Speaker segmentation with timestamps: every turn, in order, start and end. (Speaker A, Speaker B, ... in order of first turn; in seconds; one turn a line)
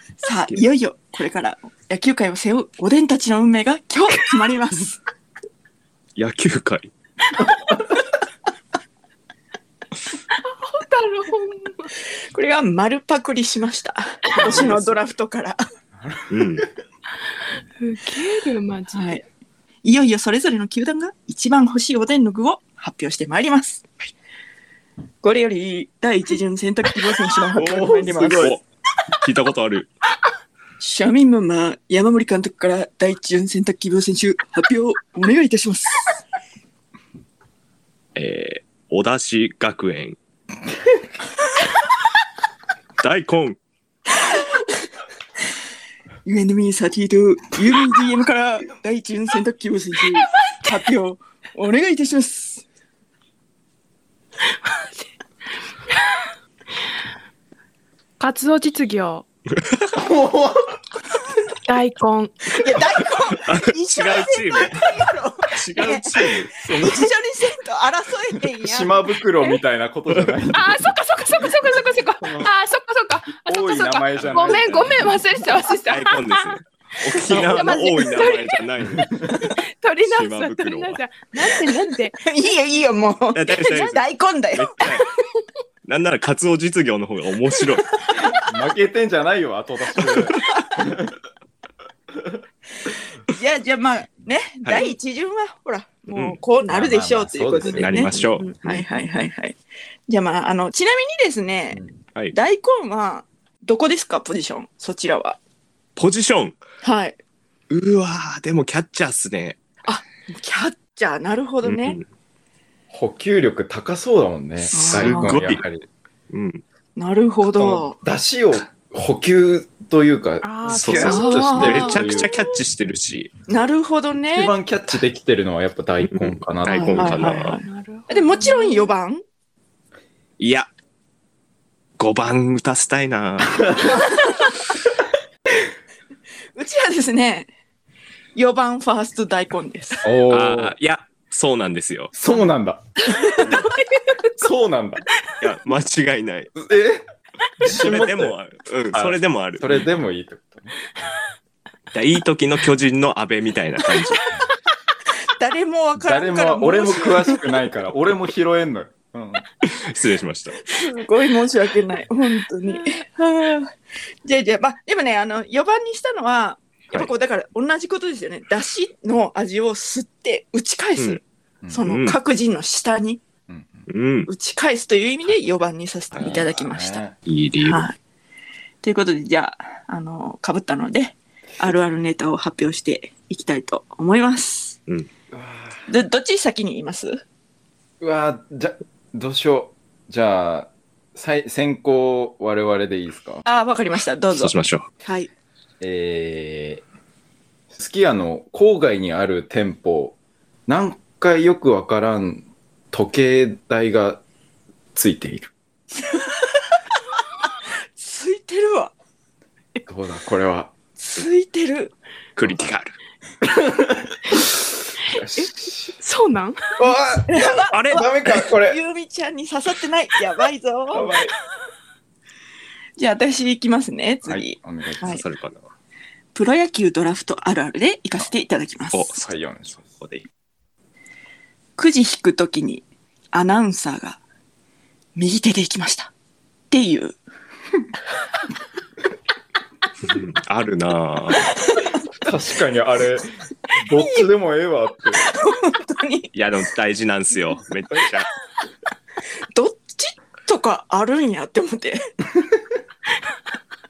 Speaker A: 0.2-5.0
Speaker B: 6.2-6.9
Speaker C: 10.4-11.9
Speaker A: 12.3-15.6
Speaker D: 14.3-15.0
Speaker D: 15.9-16.7
Speaker B: 16.3-16.6
Speaker C: 17.8-19.2
Speaker A: 18.9-19.2
Speaker A: 19.8-23.9
Speaker A: 25.2-28.5
Speaker D: 27.5-28.6
Speaker B: 28.1-28.6
Speaker B: 29.1-29.9
Speaker A: 30.8-36.1
Speaker B: 38.1-40.2
Speaker B: 43.0-43.6
Speaker A: 46.2-52.6
Speaker C: 54.5-55.0
Speaker C: 58.2-59.2
Speaker D: 59.9-60.8
Speaker C: 61.6-62.5
Speaker A: 62.5-69.0
Speaker B: 63.5-64.9
Speaker B: 65.5-66.5
Speaker D: 66.5-67.1
Speaker D: 68.6-70.9
Speaker C: 70.5-76.5
Speaker D: 72.2-72.5
Speaker D: 73.3-75.2
Speaker B: 74.2-75.0
Speaker B: 75.8-79.3
Speaker C: 77.1-78.7
Speaker A: 77.3-78.1
Speaker D: 78.9-79.5
Speaker C: 79.2-82.2
Speaker B: 80.0-81.0
Speaker A: 82.2-84.9
Speaker B: 83.3-84.0
Speaker B: 84.5-85.1
Speaker B: 85.8-88.0
Speaker D: 88.3-91.2
Speaker D: 92.1-92.4
Speaker A: 93.3-99.6
Speaker B: 94.6-94.9
Speaker B: 96.1-96.4
Speaker D: 96.7-98.8
Speaker B: 97.6-98.5
Speaker A: 100.1-105.4
Speaker B: 106.0-106.6
Speaker A: 106.8-107.2
Speaker B: 107.7-109.6
Speaker A: 109.9-112.0
Speaker B: 111.6-112.0
Speaker D: 112.9-115.9
Speaker A: 114.7-115.4
Speaker B: 114.7-115.6
Speaker B: 116.3-116.6
Speaker A: 117.0-118.0
Speaker D: 117.6-122.3
Speaker C: 120.4-122.2
Speaker B: 120.7-123.3
Speaker A: 121.1-122.0
Speaker A: 123.5-124.5
Speaker D: 124.3-127.4
Speaker B: 126.0-127.6
Speaker C: 126.7-127.0
Speaker A: 126.9-129.2
Speaker C: 127.6-128.9
Speaker B: 130.4-130.7
Speaker B: 132.0-134.0
Speaker A: 136.5-137.5
Speaker A: 138.3-140.0
Speaker D: 140.0-140.7
Speaker B: 140.3-142.1
Speaker D: 142.1-143.7
Speaker C: 143.1-144.2
Speaker D: 144.4-145.0
Speaker B: 145.4-146.5
Speaker D: 146.5-147.0
Speaker D: 147.6-148.3
Speaker B: 147.6-149.9
Speaker D: 148.9-150.7
Speaker B: 151.9-154.3
Speaker A: 155.4-157.4
Speaker D: 156.0-159.4
Speaker B: 159.6-160.7
Speaker A: 160.7-173.2
Speaker B: 171.8-172.2
Speaker D: 173.5-173.9
Speaker B: 173.9-174.3
Speaker A: 174.3-177.0
Speaker B: 176.1-176.4
Speaker D: 176.2-177.2
Speaker B: 177.2-177.8
Speaker A: 177.6-177.9
Speaker A: 178.8-184.8
Speaker D: 185.3-185.9
Speaker A: 185.9-187.2
Speaker D: 188.0-193.4
Speaker A: 193.4-195.3
Speaker B: 194.3-194.9
Speaker D: 195.8-196.8
Speaker D: 197.7-200.2
Speaker D: 200.7-204.2
Speaker D: 204.9-205.5
Speaker A: 206.1-206.3
Speaker A: 208.0-208.9
Speaker D: 209.9-210.7
Speaker A: 211.0-211.9
Speaker B: 212.3-212.9
Speaker D: 212.4-212.7
Speaker D: 213.4-214.4
Speaker D: 215.0-215.9
Speaker C: 216.0-216.7
Speaker D: 216.8-218.8
Speaker A: 217.2-221.1
Speaker B: 217.7-218.4
Speaker D: 220.9-221.3
Speaker A: 223.0-225.2
Speaker D: 224.3-225.1
Speaker B: 225.0-225.7
Speaker A: 226.3-229.2
Speaker B: 228.9-229.3
Speaker D: 229.2-230.0
Speaker B: 229.8-230.2
Speaker A: 231.8-234.2
Speaker A: 235.2-236.1
Speaker A: 236.7-237.2
Speaker B: 240.0-241.5
Speaker A: 241.6-241.9
Speaker D: 242.2-245.3
Speaker A: 245.2-246.3
Speaker B: 246.3-248.3
Speaker A: 249.5-252.1